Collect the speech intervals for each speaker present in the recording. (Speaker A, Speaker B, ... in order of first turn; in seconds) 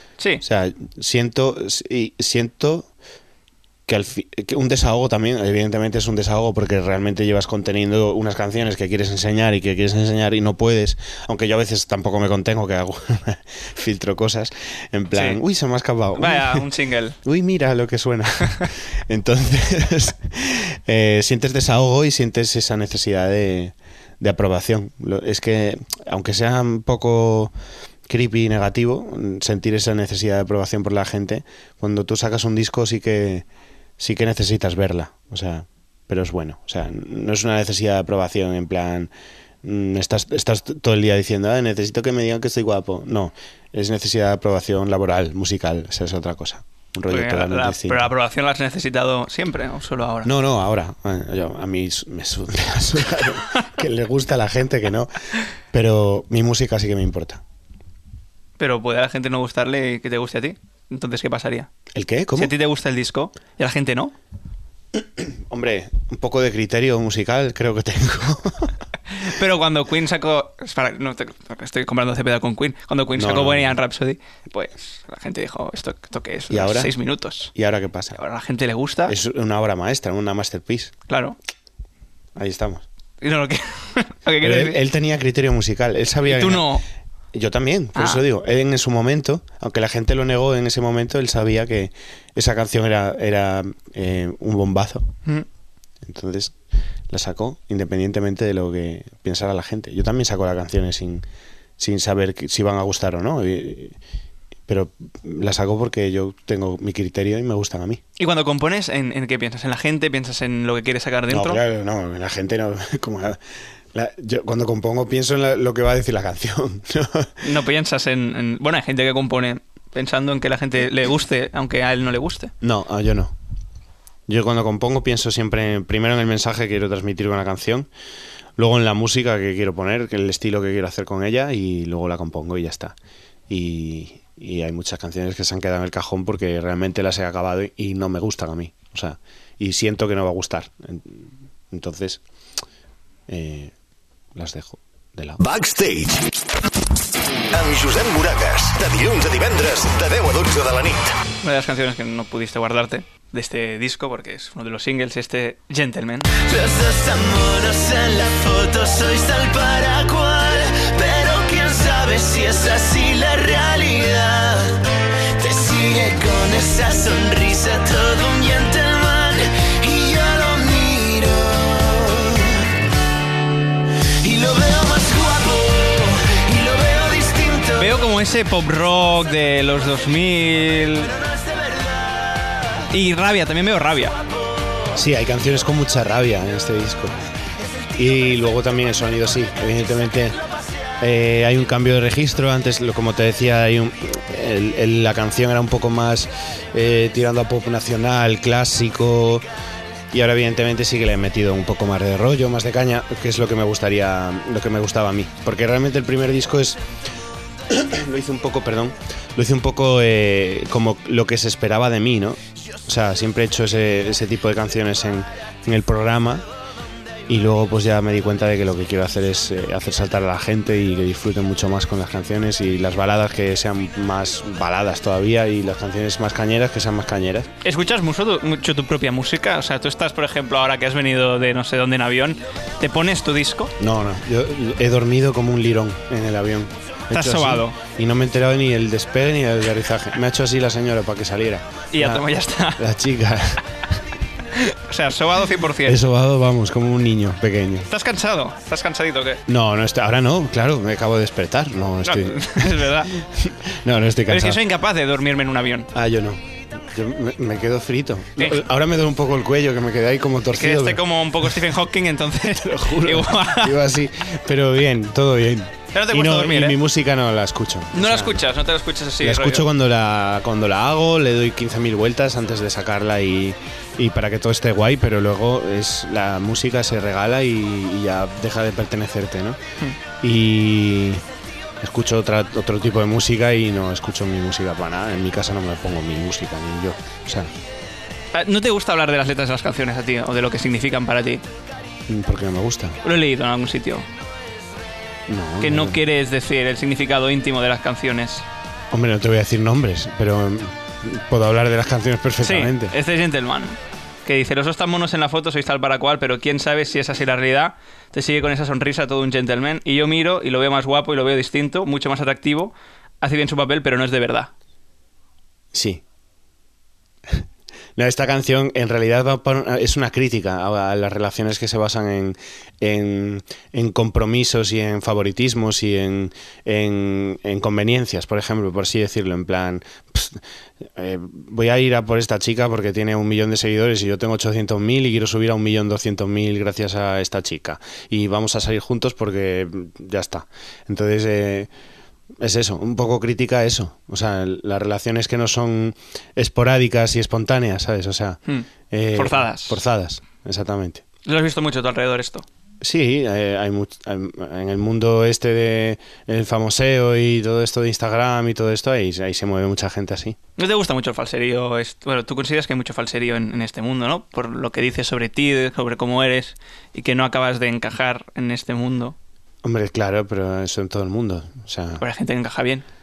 Speaker A: 0.4-2.9, 3.9-16.7, 17.2-27.5, 28.1-33.5, 34.0-39.1, 39.6-48.1, 50.2-55.2, 55.7-57.4, 61.9-62.5, 64.9-68.8, 73.1-73.8, 76.5-77.0, 77.5-78.2, 79.1-81.0, 82.4-82.9, 84.4-86.7, 87.3-95.1, 96.0-96.5, 97.1-101.2, 101.8-104.0, 104.7-108.0, 111.3-113.4, 113.9-117.4, 122.6-123.3, 124.3-127.9, 128.6-133.0, 133.5-142.2, 143.3-143.7, 144.3-145.4, 184.9-187.2, 188.0-190.4, 191.0-199.5, 200.1-206.8, 207.7-216.4, 217.3-227.5, 233.8-244.0, 245.8-247.9, 249.5-254.6, 255.9-261.6, 262.6-268.4, 269.2-279.6, 280.2-281.2, 281.8-287.5, 292.1-293.0, 295.3-296.0, 298.9-302.9, 315.7-316.0, 318.0-330.4, 330.9-341.7, 342.4-351.0, 352.8-360.4, 369.6-372.0
Speaker B: 15.1-15.4, 16.2-17.2, 47.1-50.3, 58.6-61.7, 62.4-64.1, 69.1-77.5, 78.2-79.2, 81.1-81.4, 83.2-84.8, 86.2-86.8, 88.0-88.2, 108.2-111.6, 117.4-122.5, 151.4-156.3, 177.8-181.1, 182.9-184.2, 227.6-233.7, 237.1-237.8, 241.9-242.8, 244.5-246.0, 247.9-249.4, 252.0-253.2, 254.3-255.9, 258.4-258.6, 260.6-263.8, 265.9-266.8, 267.9-269.7, 288.3-291.4, 293.0-294.1, 295.6-298.4, 302.4-314.5, 348.5-349.8, 351.2-352.5, 360.6-369.2, 372.0-372.9
Speaker C: 145.4-146.3, 147.5-151.2
Speaker D: 156.3-164.8, 165.4-172.7, 174.1-178.0, 181.6-181.8